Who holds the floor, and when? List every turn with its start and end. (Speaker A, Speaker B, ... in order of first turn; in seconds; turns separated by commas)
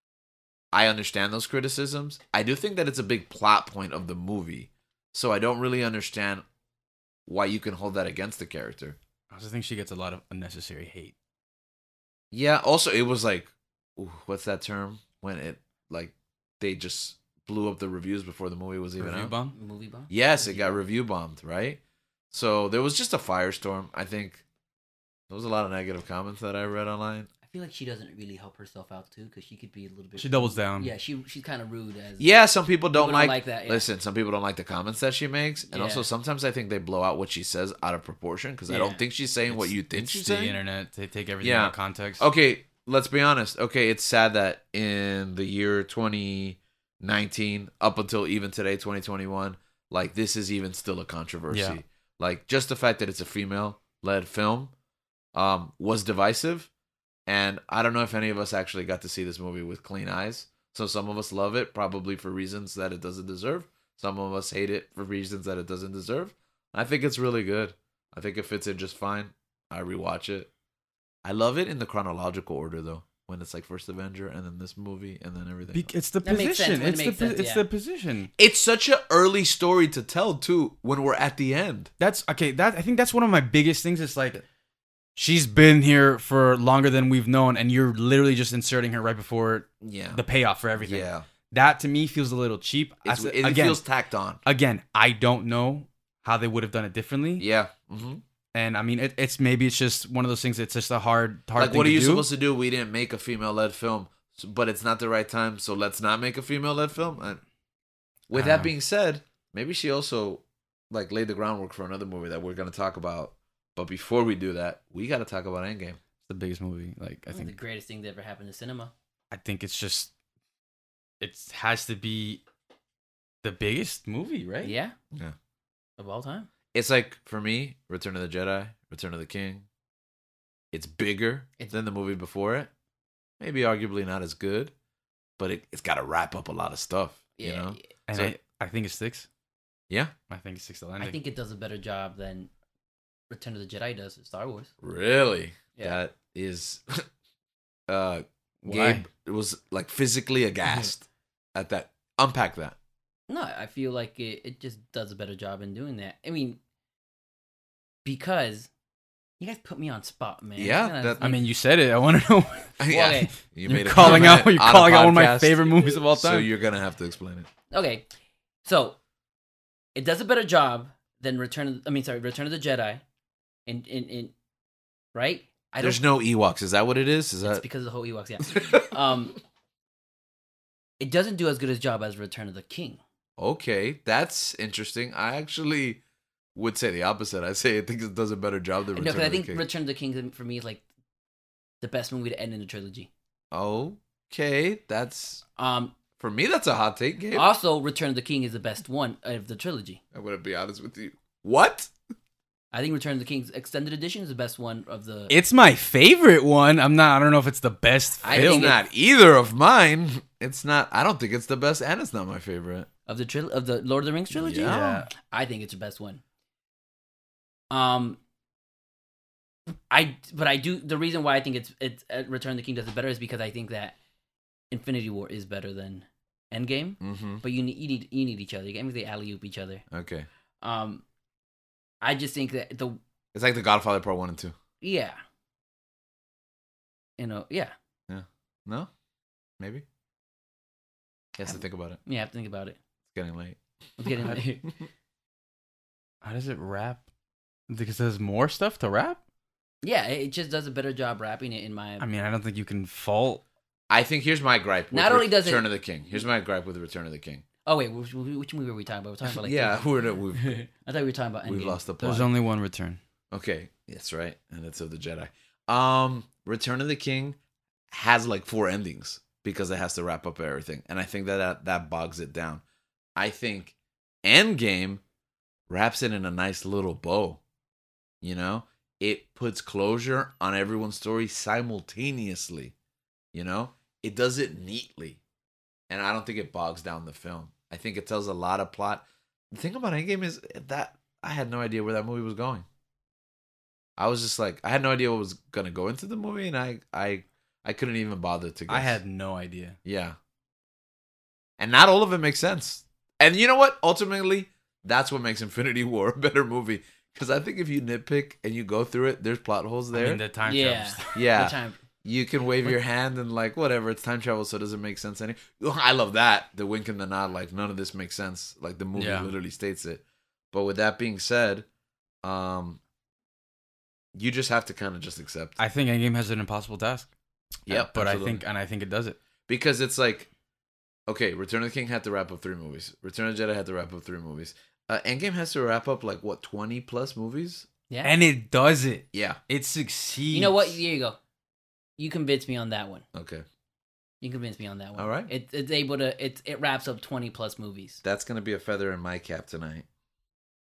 Speaker A: 0.7-6.4, Speaker A: 7.3-9.0, Speaker B: 9.3-11.1, Speaker A: 12.3-19.3, Speaker B: 19.0-19.5, Speaker C: 19.5-20.9, Speaker A: 20.1-21.8, Speaker A: 22.3-24.4, Speaker A: 25.3-27.3, Speaker C: 27.4-32.2, Speaker B: 30.2-30.9, Speaker A: 32.2-40.6, Speaker C: 32.9-33.9, Speaker C: 35.7-36.1, Speaker C: 38.7-39.0, Speaker B: 39.5-42.2, Speaker A: 41.4-54.7, Speaker B: 51.5-51.8, Speaker A: 55.3-56.7, Speaker A: 57.3-70.5, Speaker A: 71.2-75.9, Speaker B: 75.7-78.3, Speaker C: 76.2-77.6, Speaker A: 78.4-81.9, Speaker B: 82.0-84.4, Speaker B: 85.2-93.8, Speaker A: 89.8-90.2, Speaker A: 90.8-91.2, Speaker A: 93.0-94.4, Speaker B: 94.5-97.4, Speaker A: 97.4-98.2, Speaker B: 98.5-102.3, Speaker A: 101.5-107.4, Speaker A: 108.3-116.0, Speaker B: 108.3-108.7, Speaker B: 116.2-117.5, Speaker C: 117.3-118.9, Speaker B: 119.3-120.1, Speaker B: 121.2-122.4, Speaker B: 123.4-124.7, Speaker C: 124.6-124.9, Speaker C: 126.0-126.5, Speaker A: 126.7-129.7, Speaker A: 130.7-132.7, Speaker A: 133.4-134.7, Speaker A: 135.4-138.3, Speaker C: 137.4-137.9, Speaker B: 138.1-139.3, Speaker B: 140.3-141.2, Speaker C: 141.0-142.5, Speaker C: 143.3-144.7, Speaker A: 144.8-147.1, Speaker C: 145.7-146.0, Speaker A: 147.9-152.8, Speaker B: 148.6-149.0, Speaker C: 153.3-156.6, Speaker C: 158.0-158.7, Speaker C: 159.4-161.4, Speaker A: 160.6-161.3, Speaker B: 161.2-162.8, Speaker A: 162.8-167.5, Speaker C: 162.9-163.3, Speaker B: 163.5-166.5, Speaker C: 167.7-168.1, Speaker C: 168.6-169.0, Speaker C: 169.9-173.0, Speaker C: 173.7-174.3, Speaker C: 175.1-176.0, Speaker A: 175.8-177.6, Speaker C: 177.4-179.4, Speaker A: 178.4-178.9, Speaker C: 181.0-183.0, Speaker A: 183.4-186.0, Speaker A: 186.5-189.6, Speaker C: 188.9-190.8, Speaker C: 191.8-193.1, Speaker A: 193.5-195.4, Speaker C: 195.6-195.9, Speaker A: 196.2-197.5, Speaker C: 197.3-200.0, Speaker A: 200.1-201.9, Speaker C: 202.7-205.3, Speaker B: 205.3-208.7, Speaker C: 208.2-208.8, Speaker A: 208.2-212.9, Speaker C: 213.1-216.2, Speaker A: 214.3-215.0, Speaker B: 214.6-215.1, Speaker C: 217.7-218.2, Speaker C: 219.9-223.9, Speaker C: 224.7-229.8, Speaker A: 227.0-227.4, Speaker A: 229.9-230.3, Speaker C: 230.6-231.0, Speaker C: 232.0-233.0, Speaker A: 233.3-234.5, Speaker C: 234.8-235.2, Speaker C: 237.2-237.7, Speaker A: 238.1-238.9, Speaker A: 239.6-239.8, Speaker A: 241.3-242.0, Speaker C: 241.5-242.8, Speaker A: 243.1-243.6, Speaker C: 244.0-244.7, Speaker B: 244.1-244.4, Speaker B: 246.2-247.0, Speaker B: 247.7-249.2, Speaker C: 249.8-252.0, Speaker B: 252.0-253.4, Speaker A: 253.9-257.4, Speaker C: 254.9-255.7, Speaker C: 257.6-261.8, Speaker A: 259.2-260.5, Speaker A: 261.4-262.3, Speaker B: 262.0-263.0, Speaker A: 263.3-267.4, Speaker A: 267.9-272.6, Speaker A: 273.1-275.0, Speaker A: 275.7-277.4, Speaker A: 278.2-282.7, Speaker A: 283.3-285.2, Speaker A: 285.9-292.6, Speaker A: 294.0-299.0, Speaker B: 298.7-299.8, Speaker A: 299.8-300.2, Speaker A: 301.6-310.2, Speaker B: 309.9-311.2, Speaker C: 310.4-311.8, Speaker A: 311.1-321.6, Speaker B: 318.9-319.3, Speaker A: 322.2-322.8, Speaker A: 324.1-325.6, Speaker B: 325.6-327.1, Speaker A: 327.6-328.4, Speaker B: 327.7-329.2, Speaker A: 329.5-330.3, Speaker A: 331.1-337.7, Speaker B: 338.0-340.8, Speaker A: 339.1-339.4, Speaker C: 340.3-341.2, Speaker C: 342.0-343.0, Speaker A: 343.1-343.4, Speaker C: 344.2-348.0, Speaker A: 345.0-345.3, Speaker A: 348.0-349.9